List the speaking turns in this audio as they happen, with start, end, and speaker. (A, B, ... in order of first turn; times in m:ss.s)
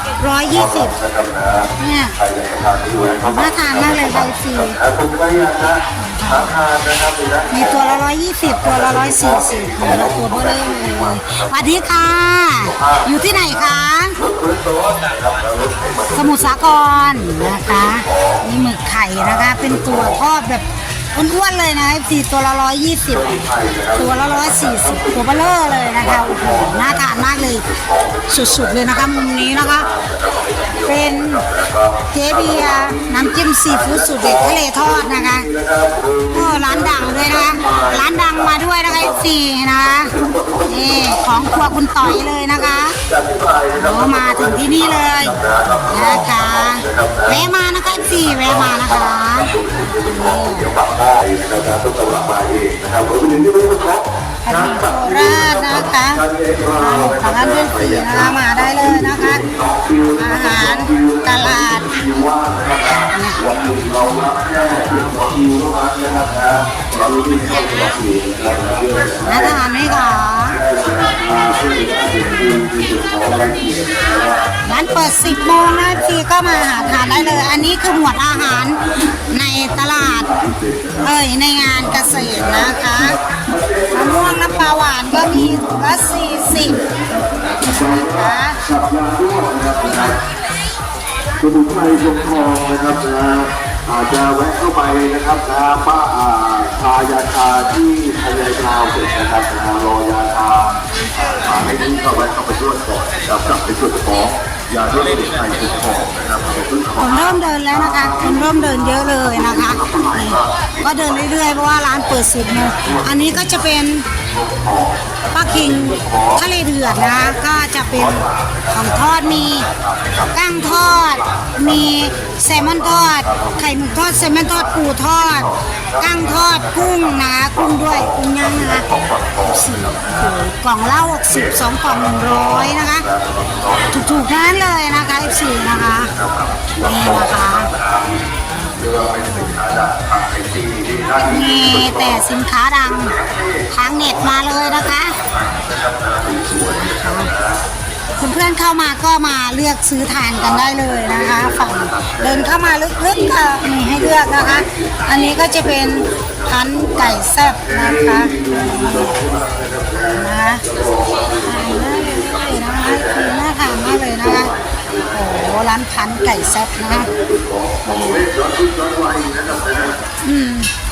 0:00.2-0:01.0 A
0:00.5-0:18.5 B
0:01.8-0:02.2 A
0:03.3-0:04.8 A
0:06.0-0:06.5 A
0:07.5-0:14.2 A
0:16.1-0:23.4 A
0:19.2-0:20.2 B
0:23.1-0:39.2 B
0:24.0-0:27.6 A
0:28.3-0:29.9 A
0:30.8-0:31.4 A
0:32.1-0:35.5 A
0:36.3-0:43.0 A
0:40.0-1:09.7 B
0:43.8-0:50.7 A
0:54.4-0:56.2 A
0:56.8-0:59.4 A
1:00.2-1:01.9 A
1:02.9-1:03.4 A
1:09.2-1:10.6 A
1:10.4-1:17.5 B
1:14.6-1:20.3 A
1:18.6-1:19.2 B
1:19.8-1:21.1 B
1:21.0-1:23.2 A
1:21.7-1:30.2 B
1:23.9-1:26.9 A
1:27.6-1:28.6 A
1:31.4-1:40.8 B
1:41.3-1:53.6 B
1:47.0-1:54.1 A
1:54.2-2:03.8 B
1:55.3-1:59.7 A
2:00.3-2:08.9 A
2:04.4-2:10.4 B
2:09.4-2:13.1 A
2:11.3-2:14.2 B
2:13.9-2:16.1 A
2:15.2-2:22.3 B
2:16.8-2:17.7 A
2:19.1-2:19.6 A
2:21.2-2:23.2 A
2:22.8-2:27.6 B
2:23.7-2:25.2 A
2:26.6-2:27.3 A
2:28.2-2:39.2 A
2:30.4-2:45.6 B
2:40.0-2:40.7 A
2:41.3-2:44.5 A
2:45.1-2:47.1 A
2:46.2-2:50.0 B
2:47.9-2:48.3 A
2:50.2-2:50.7 A